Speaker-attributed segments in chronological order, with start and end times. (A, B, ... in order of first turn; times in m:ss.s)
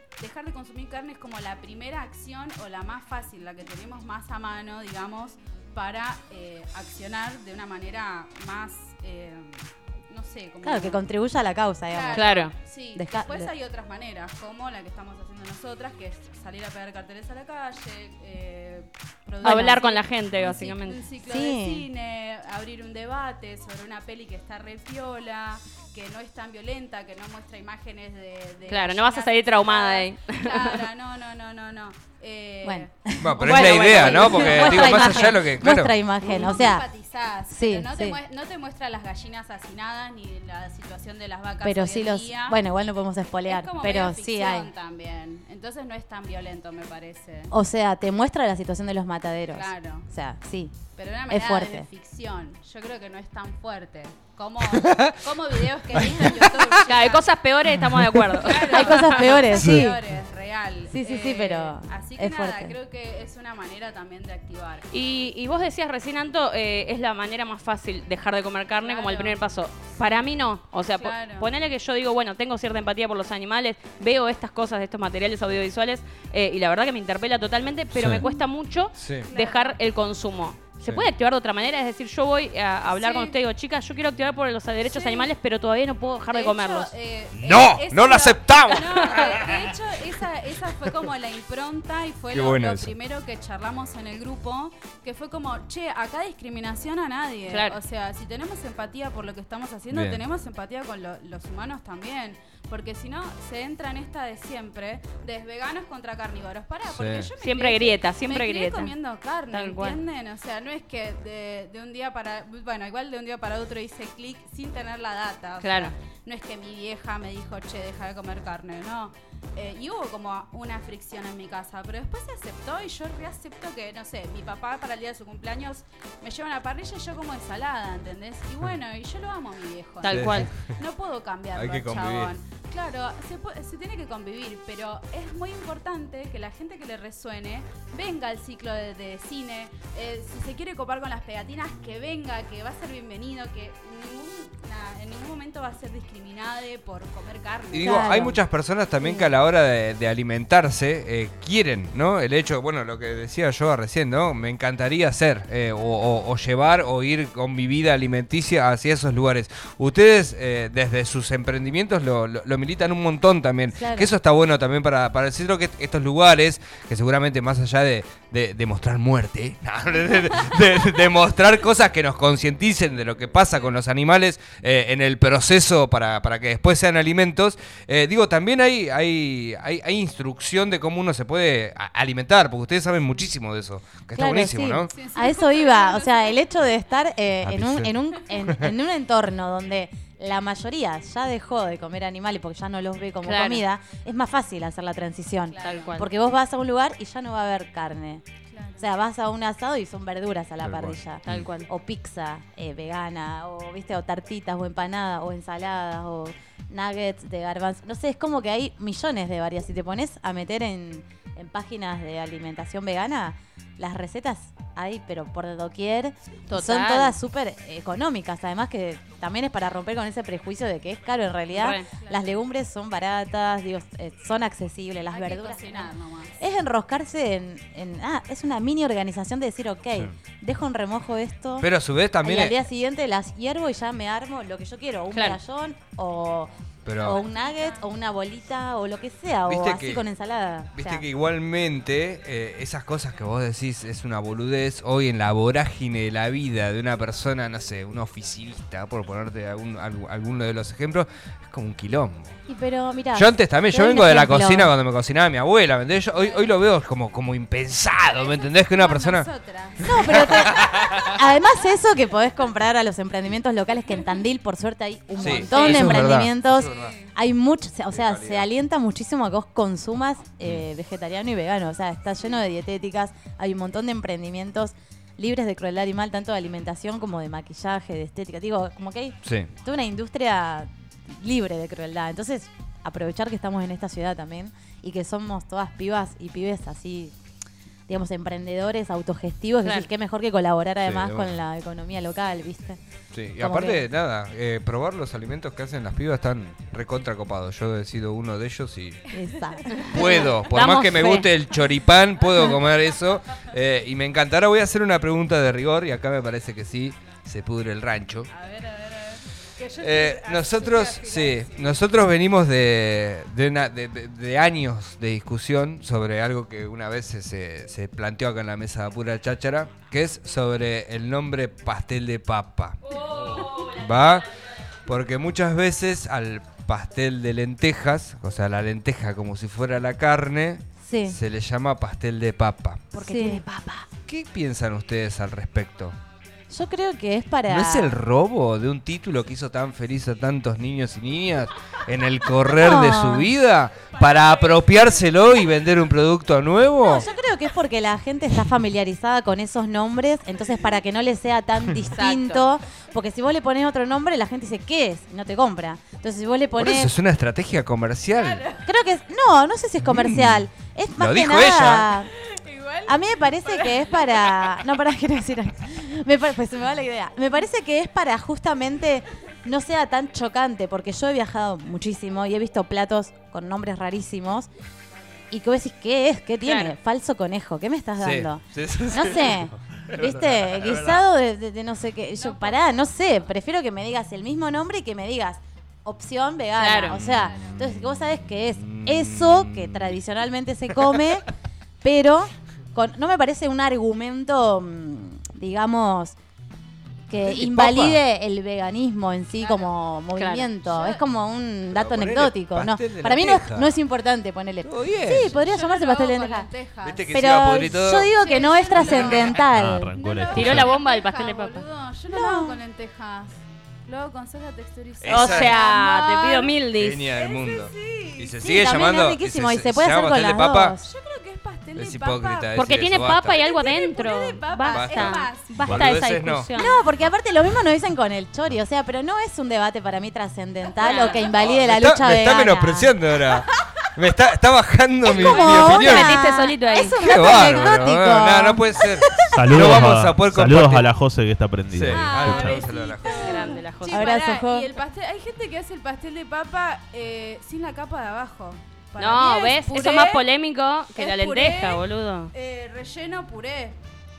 0:00.2-0:11.1 A
0:10.6-0:12.2 B
0:11.9-0:32.9 A
0:12.1-0:12.5 C
0:12.9-0:13.5 B
0:19.4-0:19.8 B
0:19.4-0:21.0 C
0:21.2-0:21.8 B
0:28.7-0:30.8 C
0:32.6-0:36.9 B
0:33.2-0:35.9 D
0:33.4-0:35.3 C
0:33.8-0:35.2 A
0:36.2-0:42.6 A
0:37.5-0:38.2 B
0:41.6-0:44.7 B
0:43.4-0:47.5 A
0:47.5-0:51.9 B
0:49.5-0:50.1 A
0:50.9-0:57.2 A
0:56.0-0:56.7 D
0:56.8-0:59.4 C
0:58.3-1:04.9 A
0:58.7-1:00.0 B
0:59.5-0:59.8 D
1:00.9-1:02.7 B
1:04.9-1:26.9 C
1:08.7-1:09.4 A
1:10.9-1:11.5 A
1:17.9-1:18.2 D
1:19.0-1:19.3 D
1:19.2-1:19.8 A
1:22.9-1:23.4 A
1:24.8-1:25.3 A
1:26.3-2:28.1 A
1:27.4-1:29.6 D
1:32.3-1:32.9 D
1:37.5-1:37.8 C
1:39.9-1:40.2 D
1:46.9-1:47.3 D
1:47.4-1:48.9 C
1:49.5-1:50.0 C
1:55.6-1:55.9 C
2:10.0-2:10.5 C
2:10.1-2:10.7 D
2:11.5-2:12.3 D
2:27.7-3:04.9 D
2:27.8-2:28.4 B
2:29.0-2:29.3 B
2:43.7-2:44.1 B
3:04.1-3:18.2 B
3:04.9-3:06.4 A
3:07.4-3:08.7 D
3:13.2-3:13.6 C
3:15.5-3:16.0 A
3:15.6-3:16.1 C
3:18.5-3:18.9 A
3:18.8-3:51.7 B
3:20.6-3:21.4 D
3:21.2-3:21.7 C
3:36.5-3:37.2 C
3:41.5-3:41.9 C
3:41.8-3:42.3 A
3:45.1-3:46.4 A
3:51.6-3:52.6 D
3:52.2-3:56.5 B
3:55.1-3:55.4 C
3:56.8-3:57.2 D
3:57.0-4:01.0 B
3:57.0-3:57.8 A
3:59.4-4:00.0 D
4:00.8-4:12.3 D
4:12.5-4:14.7 B
4:13.1-4:19.3 D
4:16.1-4:16.5 A
4:18.1-4:20.8 A
4:19.8-4:47.1 B
4:19.8-4:21.2 D
4:25.2-4:26.9 D
4:25.2-4:27.1 A
4:25.6-4:25.8 C
4:27.9-4:28.5 D
4:39.2-4:39.5 D
4:47.9-4:52.8 B
4:49.6-4:49.9 C
4:50.8-4:51.4 D
4:53.1-4:59.1 D
4:53.4-4:53.9 B
4:59.1-5:00.3 B
4:59.8-5:00.2 A
4:59.9-5:08.3 D
5:00.4-5:01.3 C
5:08.3-5:11.9 A
5:09.8-5:24.3 D
5:22.8-5:24.3 C
5:24.8-5:32.9 D
5:30.8-5:31.2 B
5:32.9-5:33.9 C
5:33.0-5:33.4 B
5:34.1-5:36.0 D
5:36.5-5:38.0 B
5:37.5-5:47.1 D
5:42.5-5:43.3 B
5:43.9-5:45.0 A
5:46.8-5:56.9 B
5:51.9-5:52.5 C
5:56.6-5:58.4 D
5:58.1-5:58.6 A
5:58.6-6:02.1 B
5:59.9-6:00.4 D
6:01.0-6:01.9 D
6:02.2-6:04.8 A
6:02.8-6:14.5 B
6:15.3-6:31.3 B
6:16.4-6:16.7 C
6:18.0-6:21.0 D
6:22.1-6:23.3 A
6:26.6-6:27.0 C
6:26.9-6:27.6 D
6:27.0-6:27.7 A
6:28.6-6:29.9 D
6:31.8-6:36.2 B
6:37.1-6:46.5 B
6:37.2-6:38.0 D
6:39.4-6:39.7 A
6:40.2-6:40.5 C
6:40.6-6:41.0 A
6:41.7-6:43.8 D
6:44.6-6:45.3 D
6:45.1-6:47.2 A
6:46.8-6:48.1 D
6:47.1-6:49.9 B
6:48.1-6:56.5 A
6:48.9-6:49.4 D
6:49.4-6:50.7 E
6:50.3-6:51.6 C
6:52.1-6:52.6 B
6:55.0-6:55.6 D
6:55.1-6:57.0 C
6:56.8-7:00.8 D
6:57.1-6:58.9 A
6:58.4-7:00.8 B
7:00.8-7:05.8 A
7:01.7-7:03.4 D
7:02.5-7:06.8 C
7:04.7-7:06.5 D
7:06.5-7:13.0 B
7:10.8-7:11.3 A
7:10.8-7:11.2 C
7:11.3-7:16.2 D
7:15.0-7:19.5 B
7:15.2-7:17.0 C
7:17.0-7:20.8 D
7:19.3-7:22.7 E
7:21.8-7:23.3 D
7:21.9-7:30.2 A
7:23.0-7:24.1 C
7:23.9-7:24.7 B
7:29.0-7:32.3 C
7:30.9-7:33.8 A